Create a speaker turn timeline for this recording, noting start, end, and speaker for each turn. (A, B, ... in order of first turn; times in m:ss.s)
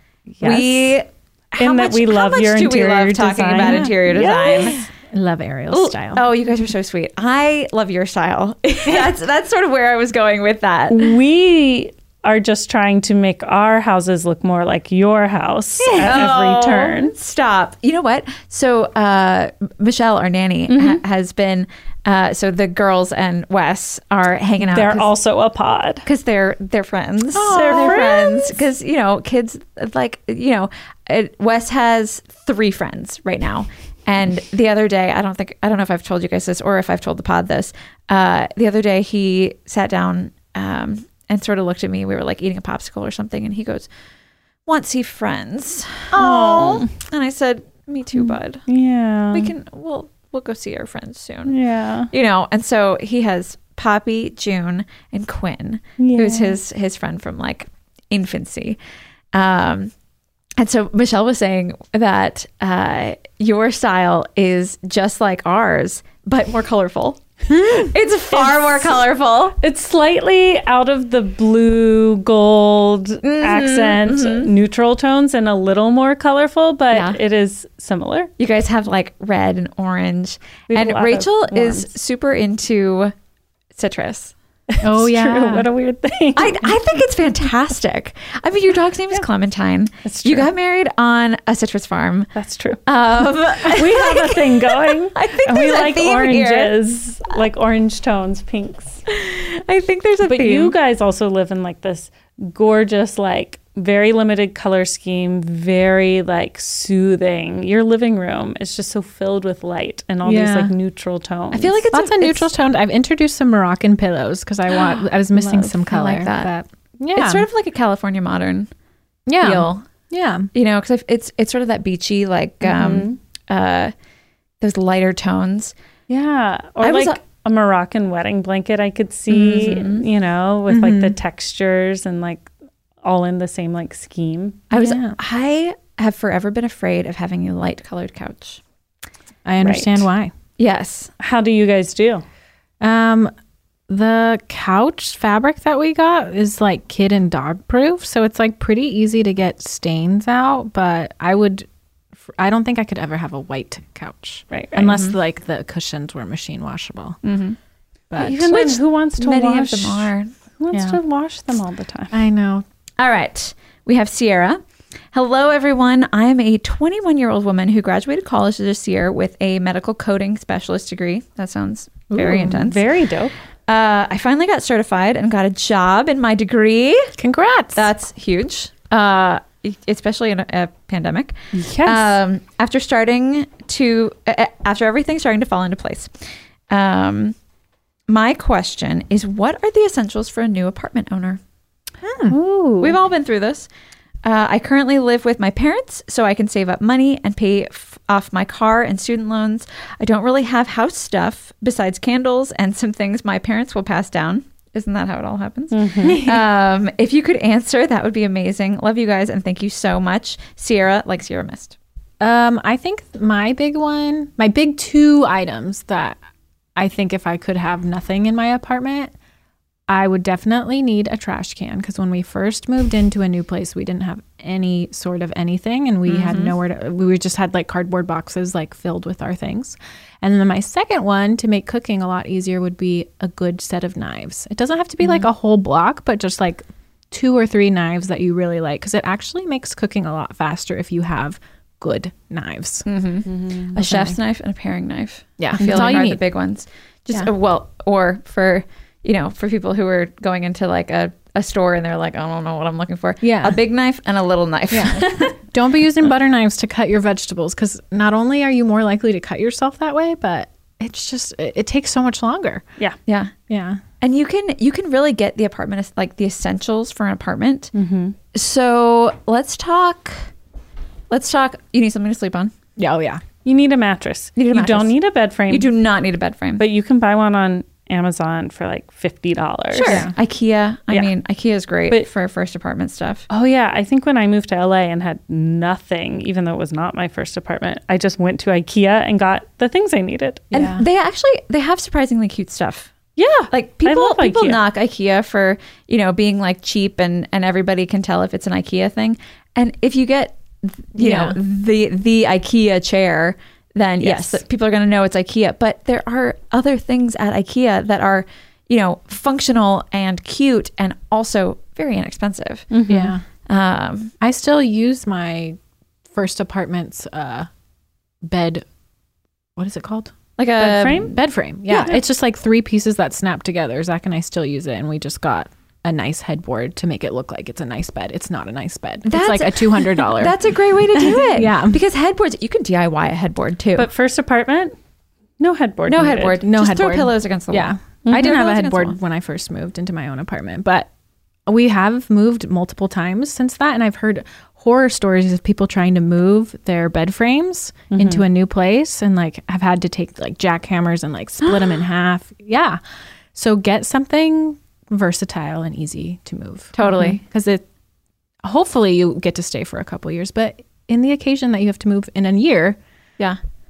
0:00.4-0:01.0 A
0:00.4-0:04.8 B
0:01.6-0:04.8 A
0:03.6-0:06.2 C
0:05.7-0:11.1 B
0:10.9-0:17.1 A
0:15.8-0:16.2 C
0:16.0-0:25.1 B
0:20.7-0:21.0 A
0:24.7-0:26.1 A
0:26.0-0:43.9 B
0:27.4-0:28.3 C
0:27.4-0:28.4 A
0:44.7-0:48.6 B
0:46.1-0:46.9 A
0:46.1-0:46.6 C
0:48.7-0:49.5 A
0:49.3-0:51.6 B
0:51.5-0:52.1 A
0:52.1-0:58.8 B
0:56.0-0:56.6 A
0:59.3-0:59.9 B
1:00.6-1:09.6 B
1:08.3-1:09.0 A
1:09.6-1:18.3 A
1:13.2-1:14.5 B
1:16.9-1:17.2 B
1:18.4-1:23.1 B
1:20.7-1:21.9 A
1:23.8-1:24.3 B
1:24.7-1:26.7 A
1:24.8-1:25.7 C
1:26.4-1:32.3 B
1:30.0-1:30.5 A
1:32.4-1:32.8 A
1:32.9-1:36.7 B
1:33.6-1:39.0 A
1:39.1-1:40.8 B
1:40.2-1:51.8 A
1:50.2-1:50.7 C
1:51.5-1:52.5 B
1:51.9-1:57.4 C
1:55.4-1:56.5 B
1:57.2-1:58.7 B
1:59.3-2:00.5 C
1:59.4-1:59.8 B
2:00.5-2:03.9 B
2:02.6-2:03.2 A
2:04.6-2:05.7 B
2:06.1-2:12.5 A
2:06.8-2:07.2 B
2:09.3-2:10.1 B
2:10.7-2:11.2 C
2:13.0-2:14.6 A
2:14.7-2:18.6 B
2:14.7-2:15.2 C
2:19.4-2:20.3 C
2:19.6-2:20.1 A
2:20.6-2:21.1 B
2:21.2-2:22.2 A
2:22.8-2:23.3 C
2:23.9-2:31.7 C
2:32.4-2:37.2 C
2:34.5-2:35.0 A
2:34.9-2:35.2 B
2:37.2-2:37.6 B
2:38.1-2:38.5 C
2:38.2-2:42.2 A
2:38.5-2:40.3 B
2:40.7-2:41.0 C
2:42.1-2:42.6 C
2:43.0-2:44.6 B
2:45.1-2:52.8 B
2:52.1-2:52.6 C
2:52.4-2:53.3 A
2:53.7-2:57.1 B
2:57.2-2:57.9 C
2:57.8-3:06.1 B
3:01.5-3:02.2 A
3:06.7-3:07.4 B
3:08.1-3:11.4 B
3:12.0-3:12.4 C
3:12.3-3:13.0 A
3:12.8-3:13.7 B
3:14.2-3:31.8 B
3:25.7-3:26.2 A
3:26.0-3:26.4 C
3:32.2-3:36.2 C
3:36.8-3:39.1 C
3:39.9-4:02.9 C
3:46.1-3:46.5 B
4:02.9-4:15.3 B
4:03.3-4:03.7 A
4:03.8-4:04.2 C
4:05.4-4:06.2 C
4:13.2-4:13.6 C
4:14.7-4:22.6 C
4:23.1-4:23.3 B
4:23.5-4:23.8 C
4:24.0-4:27.7 B
4:27.7-4:28.2 A
4:28.3-4:30.3 B
4:31.1-4:32.5 B
4:32.8-4:33.2 C
4:33.4-4:35.7 A
4:34.4-4:34.9 B
4:35.5-4:36.6 B
4:36.6-4:40.1 A
4:39.7-4:43.3 B
4:39.8-4:40.1 C
4:43.3-4:50.6 A
4:50.5-4:50.8 C
4:50.5-4:52.9 B
4:53.2-4:54.6 A
4:53.5-5:12.7 B
5:01.0-5:01.4 C
5:12.7-5:13.1 A
5:12.9-5:13.2 C
5:13.5-5:14.1 B
5:14.2-5:15.6 C
5:16.1-5:17.5 C
5:18.2-5:18.6 C
5:19.6-5:20.1 C
5:20.4-5:21.2 B
5:20.6-5:21.2 A
5:21.1-5:30.4 C
5:29.0-5:33.9 B
5:31.0-5:31.8 C
5:33.8-5:34.8 A
5:35.4-5:36.4 A
5:35.9-5:39.0 B
5:36.4-5:40.9 C
5:38.1-5:38.4 A
5:41.5-5:52.8 C
5:47.9-5:48.2 A
5:53.3-5:57.6 C
5:56.8-5:57.2 B
5:58.4-6:02.8 C